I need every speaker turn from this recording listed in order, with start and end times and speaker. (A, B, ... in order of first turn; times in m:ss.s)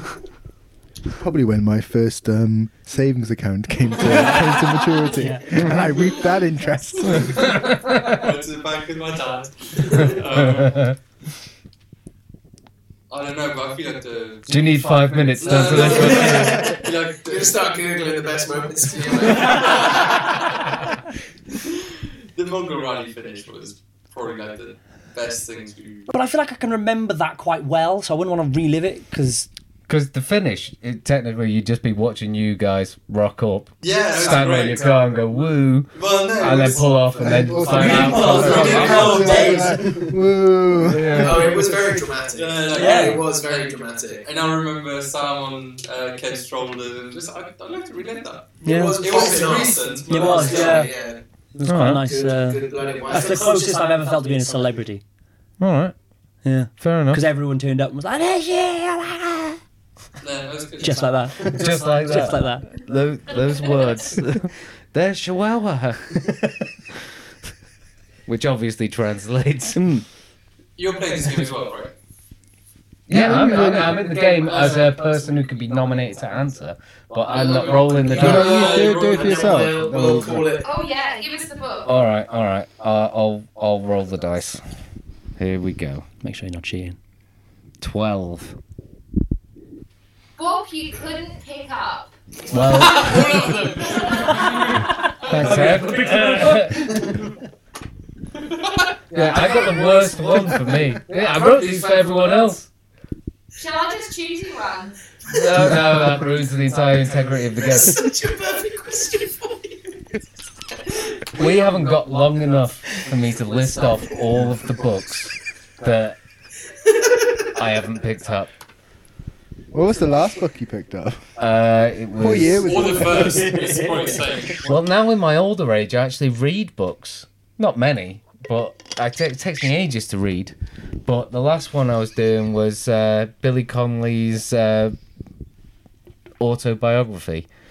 0:01.2-0:07.5 A
0:05.1-0:05.7 B
0:07.1-0:08.2 C
0:07.4-0:10.9 D
0:10.0-0:11.0 C
0:13.1-0:20.7 D
0:14.5-0:16.8 C
0:15.4-0:20.2 E
0:22.4-0:26.1 D
0:26.1-0:29.5 B
0:29.9-0:39.4 C
0:33.8-0:35.2 D
0:34.4-0:34.6 E
0:36.0-0:37.1 D
0:37.2-0:41.5 A
0:37.7-0:40.1 B
0:38.3-0:39.6 D
0:40.9-0:41.7 C
0:41.1-0:44.3 E
0:42.3-0:50.9 D
0:42.7-0:43.2 B
0:48.6-0:51.2 E
0:48.6-0:49.1 B
0:50.1-0:50.9 B
0:51.6-0:55.0 B
0:51.7-0:52.0 C
0:52.0-0:53.7 E
0:55.6-0:56.0 C
0:56.4-0:59.6 B
0:56.8-0:57.2 C
1:00.2-1:02.3 D
1:00.8-1:02.7 B
1:01.6-1:06.4 C
1:08.3-1:09.8 C
1:09.8-1:10.0 B
1:10.8-1:11.9 D
1:13.1-1:18.7 C
1:13.1-1:14.0 A
1:17.2-1:19.7 D
1:17.3-1:20.7 E
1:18.1-1:20.5 A
1:20.6-1:22.0 F
1:21.9-1:24.6 C
1:25.4-1:26.1 C
1:26.2-1:27.0 B
1:27.8-1:28.6 C
1:30.4-1:32.1 F
1:32.5-1:33.6 C
1:32.5-1:35.8 D
1:34.8-1:37.2 B
1:35.2-1:37.1 C
1:39.1-1:42.7 C
1:43.6-1:45.0 F
1:45.3-1:48.0 C
1:47.5-1:50.0 E
1:51.3-1:56.2 C
1:57.6-1:58.5 C
1:59.7-2:01.2 A
2:01.4-2:02.9 C
2:02.2-2:03.5 A
2:02.5-2:04.8 D
2:03.1-2:04.2 B
2:04.6-2:15.0 C
2:16.4-2:17.5 C